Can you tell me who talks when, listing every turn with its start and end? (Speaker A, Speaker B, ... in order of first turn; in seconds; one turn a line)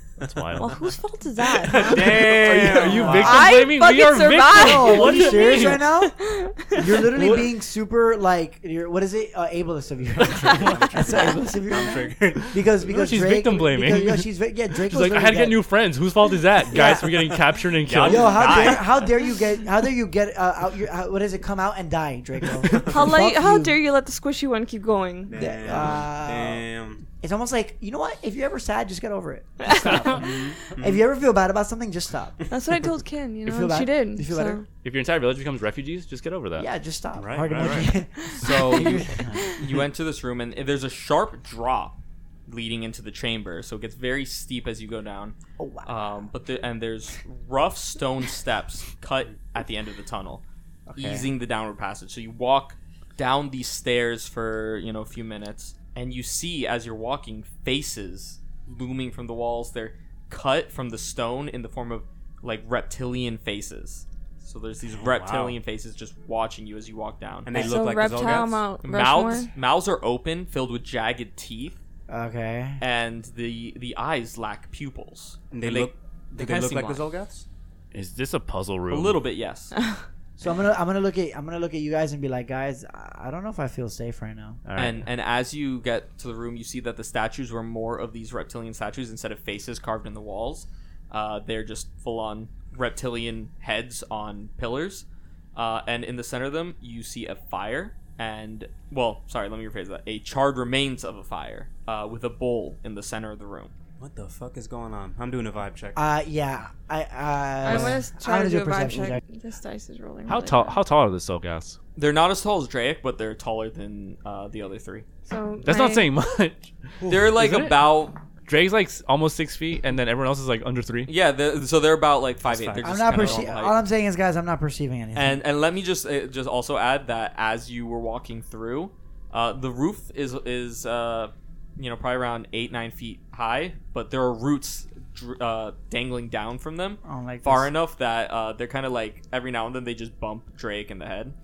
Speaker A: 0.2-0.8
Speaker B: 0.6-2.3
Speaker C: 1.6-3.5
Speaker A: 1.9-5.9
Speaker D: 2.9-3.2
Speaker B: 3.0-7.1
Speaker D: 4.5-15.7
Speaker A: 7.2-7.5
Speaker A: 10.5-10.9
Speaker C: 10.5-12.9
Speaker A: 12.9-18.8
Speaker D: 16.7-17.4
Speaker E: 17.8-19.0
Speaker D: 18.0-23.8
Speaker B: 22.8-25.4
Speaker C: 25.3-27.1
Speaker D: 25.3-26.6
Speaker D: 27.2-32.5
Speaker B: 29.6-30.3
Speaker A: 29.7-30.1
Speaker C: 30.0-31.0
Speaker B: 32.5-34.6
Speaker D: 33.5-34.6
Speaker A: 34.8-36.7
Speaker D: 36.6-39.6
Speaker C: 37.1-37.9
Speaker E: 38.4-50.4
Speaker D: 45.6-45.9
Speaker D: 50.9-51.3
Speaker E: 51.0-67.8
Speaker A: 65.2-65.5
Speaker C: 67.5-68.6
Speaker B: 67.5-69.5
Speaker E: 68.8-71.8
Speaker D: 72.1-72.8
Speaker E: 72.8-77.0
Speaker C: 75.5-77.5
Speaker A: 77.9-79.2
Speaker E: 78.9-79.7
Speaker D: 80.4-84.6
Speaker A: 84.7-85.1
Speaker E: 84.8-103.7
Speaker C: 104.0-106.0
Speaker D: 106.0-109.2
Speaker B: 107.6-110.8
Speaker A: 110.3-111.8
Speaker E: 112.0-115.1
Speaker B: 115.3-116.1
Speaker A: 115.6-117.9
Speaker E: 117.1-118.2
Speaker A: 118.5-121.1
Speaker E: 121.1-123.8
Speaker C: 122.5-123.5
Speaker D: 122.8-125.4
Speaker E: 125.2-141.3
Speaker D: 137.0-137.7